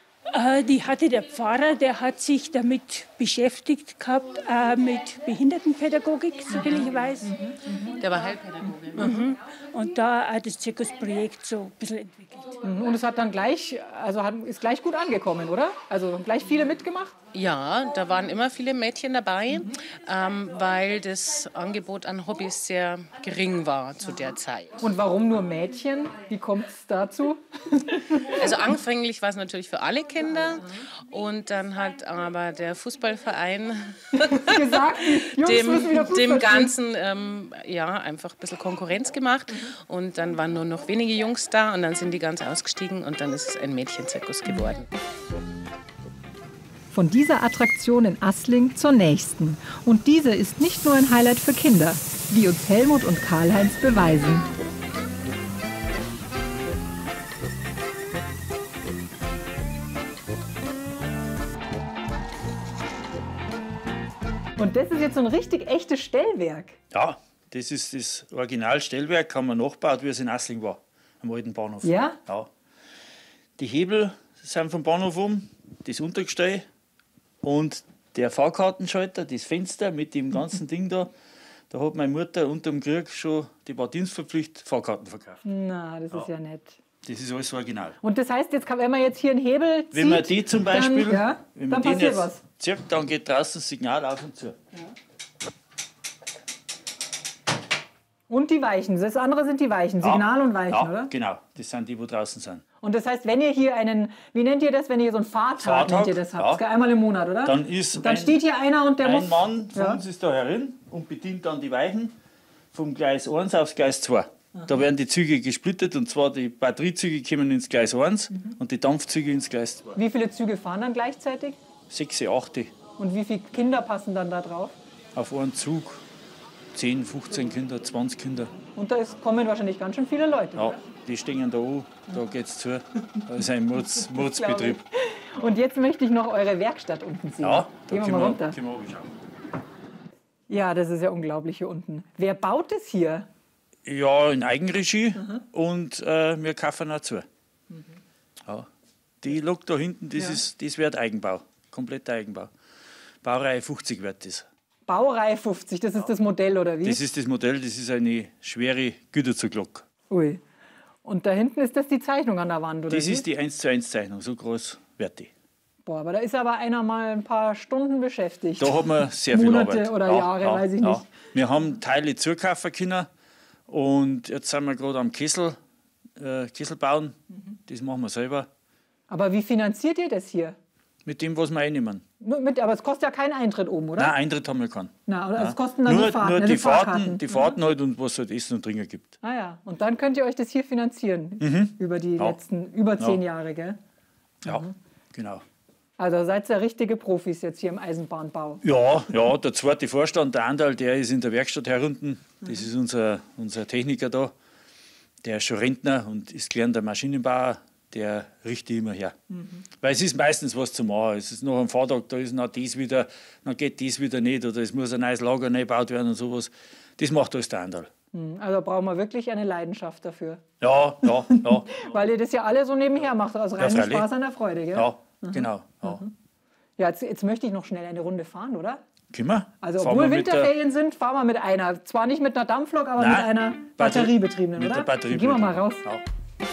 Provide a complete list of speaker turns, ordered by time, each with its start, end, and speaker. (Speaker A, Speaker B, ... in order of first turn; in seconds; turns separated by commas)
Speaker A: 0.3-7.3, Speaker B: 7.2-8.0, Speaker C: 8.0-9.3, Speaker A: 9.1-12.6, Speaker B: 12.6-17.1, Speaker C: 17.3-24.8, Speaker B: 24.8-28.1, Speaker C: 28.4-34.8, Speaker B: 34.1-36.7, Speaker C: 35.4-44.9, Speaker B: 46.9-54.5, Speaker B: 64.6-66.8, Speaker D: 66.9-72.5, Speaker B: 71.8-72.2, Speaker D: 73.6-76.7, Speaker D: 77.4-81.1, Speaker D: 81.7-85.4, Speaker B: 85.4-86.8, Speaker D: 87.0-88.0, Speaker B: 88.0-92.4, Speaker D: 89.9-94.5, Speaker B: 98.3-101.1, Speaker D: 100.0-102.6, Speaker B: 102.8-110.0, Speaker D: 105.6-106.6, Speaker D: 107.4-108.4, Speaker D: 109.0-112.1, Speaker D: 112.7-119.9, Speaker B: 119.9-121.6, Speaker D: 121.9-122.7, Speaker B: 123.0-124.8, Speaker D: 125.1-126.0, Speaker D: 126.7-128.5, Speaker B: 128.7-130.8, Speaker D: 130.6-134.8, Speaker B: 134.1-138.6, Speaker D: 137.4-139.1, Speaker B: 140.5-143.3, Speaker D: 143.8-147.2, Speaker D: 149.2-152.5, Speaker D: 153.2-154.4, Speaker B: 154.8-157.0, Speaker D: 156.8-159.8, Speaker B: 160.1-160.4, Speaker B: 161.0-163.2, Speaker D: 162.9-165.3, Speaker B: 165.8-171.1, Speaker D: 168.6-173.1, Speaker D: 173.7-175.6, Speaker D: 176.2-178.5, Speaker B: 179.1-180.6, Speaker D: 181.0-182.0, Speaker B: 182.2-184.1, Speaker D: 184.0-189.1, Speaker B: 185.1-187.3, Speaker B: 189.2-193.8, Speaker D: 191.4-192.4, Speaker D: 194.4-195.4, Speaker B: 194.5-194.7, Speaker B: 196.0-198.6, Speaker D: 198.6-204.3, Speaker D: 205.2-209.1, Speaker D: 209.8-217.9, Speaker B: 218.1-220.4, Speaker D: 220.6-221.9, Speaker B: 221.4-226.1, Speaker D: 223.6-224.1, Speaker D: 224.7-226.0, Speaker B: 226.8-228.8, Speaker D: 229.1-230.5, Speaker B: 229.6-235.8, Speaker D: 233.0-236.0